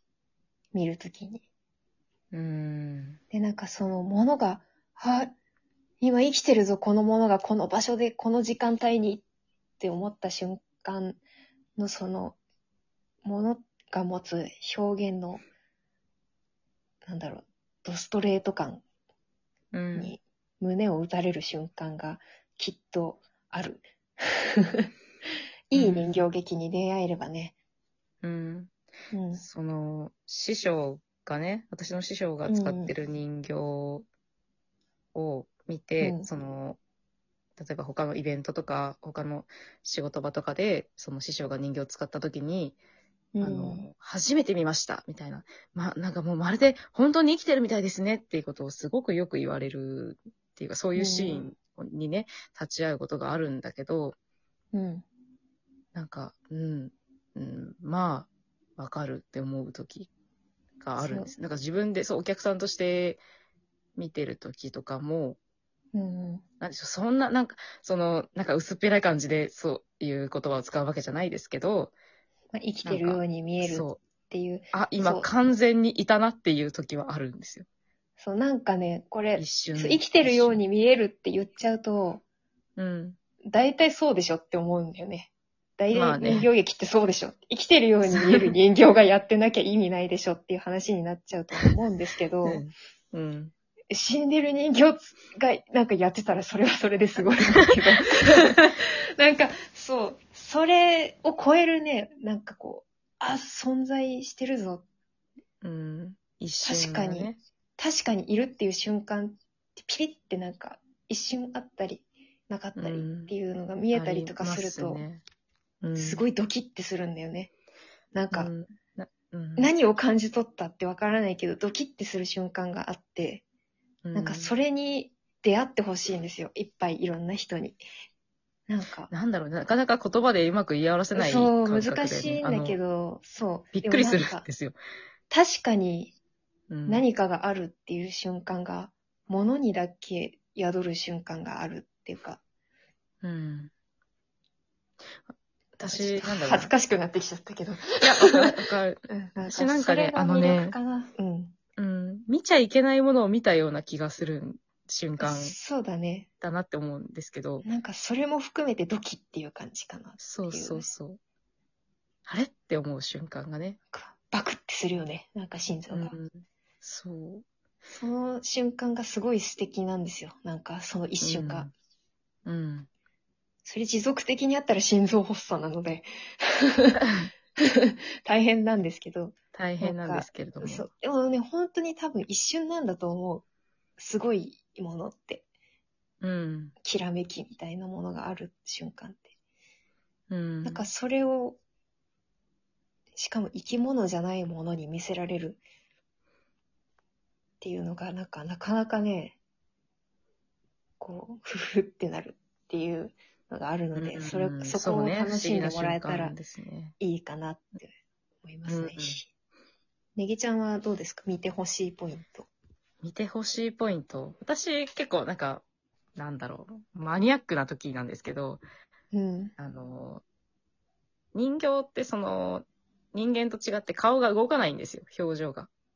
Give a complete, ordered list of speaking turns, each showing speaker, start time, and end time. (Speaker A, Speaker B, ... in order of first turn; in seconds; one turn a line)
Speaker A: 0.7-1.4
Speaker B: 2.3-3.2
Speaker A: 3.3-5.3
Speaker A: 6.0-9.2
Speaker A: 9.8-11.2
Speaker A: 11.8-12.4
Speaker A: 13.2-15.4
Speaker A: 17.0-18.8
Speaker B: 19.7-20.1
Speaker A: 19.9-24.9
Speaker A: 25.7-27.6
Speaker B: 25.7-26.2
Speaker B: 28.2-28.7
Speaker A: 29.1-29.4
Speaker B: 29.3-34.0
Speaker A: 32.5-32.9
Speaker B: 35.1-36.8
Speaker A: 36.0-36.3
Speaker B: 37.6-42.8
Speaker A: 43.3-43.9
Speaker B: 43.4-54.1
Speaker A: 51.0-51.5
Speaker A: 54.7-55.0
Speaker B: 55.9-60.1
Speaker B: 60.8-63.2
Speaker A: 61.0-61.3
Speaker B: 64.0-65.4
Speaker A: 65.9-66.4
Speaker B: 66.6-71.9
Speaker A: 72.5-75.3
Speaker B: 72.8-74.0
Speaker B: 74.7-77.7
Speaker A: 78.2-82.2
Speaker B: 79.4-80.6
Speaker B: 82.8-83.2
Speaker A: 83.5-92.6
Speaker B: 85.9-86.5
Speaker B: 88.0-88.5
Speaker B: 92.4-93.5
Speaker A: 93.9-104.8
Speaker B: 105.6-107.4
Speaker A: 106.6-115.0
Speaker B: 112.8-113.3
Speaker B: 113.9-115.2
Speaker B: 115.8-116.2
Speaker A: 116.0-117.5
Speaker A: 118.1-118.5
Speaker B: 118.3-119.7
Speaker A: 119.6-123.4
Speaker B: 124.0-124.5
Speaker A: 124.1-127.8
Speaker A: 128.7-129.1
Speaker B: 129.1-132.8
Speaker A: 131.1-134.4
Speaker B: 133.7-134.8
Speaker A: 135.3-136.1
Speaker B: 136.7-137.0
Speaker A: 136.9-142.4
Speaker B: 143.2-143.7
Speaker B: 145.8-146.7
Speaker A: 145.8-148.5
Speaker B: 148.0-150.8
Speaker A: 149.1-151.5
Speaker B: 151.8-155.6
Speaker A: 155.2-156.3
Speaker B: 156.4-157.6
Speaker A: 157.6-160.9
Speaker B: 160.2-161.2
Speaker B: 162.2-163.8
Speaker A: 163.9-166.2
Speaker B: 165.9-167.4
Speaker A: 167.9-171.7
Speaker B: 171.2-171.7
Speaker B: 172.4-172.9
Speaker A: 173.6-177.0
Speaker B: 177.0-177.3
Speaker A: 177.6-183.4
Speaker B: 179.5-180.9
Speaker A: 184.0-185.4
Speaker B: 186.2-186.7
Speaker A: 186.8-189.3
Speaker B: 190.3-190.8
Speaker A: 190.6-191.6
Speaker A: 193.1-195.6
Speaker A: 197.6-199.4
Speaker A: 201.0-206.3
Speaker B: 203.9-206.9
Speaker A: 207.0-207.9
Speaker A: 208.4-209.3
Speaker B: 208.7-209.2
Speaker A: 210.2-212.5
Speaker B: 213.0-215.6
Speaker B: 216.2-218.6
Speaker A: 219.1-219.5
Speaker B: 219.6-220.2
Speaker B: 221.3-225.7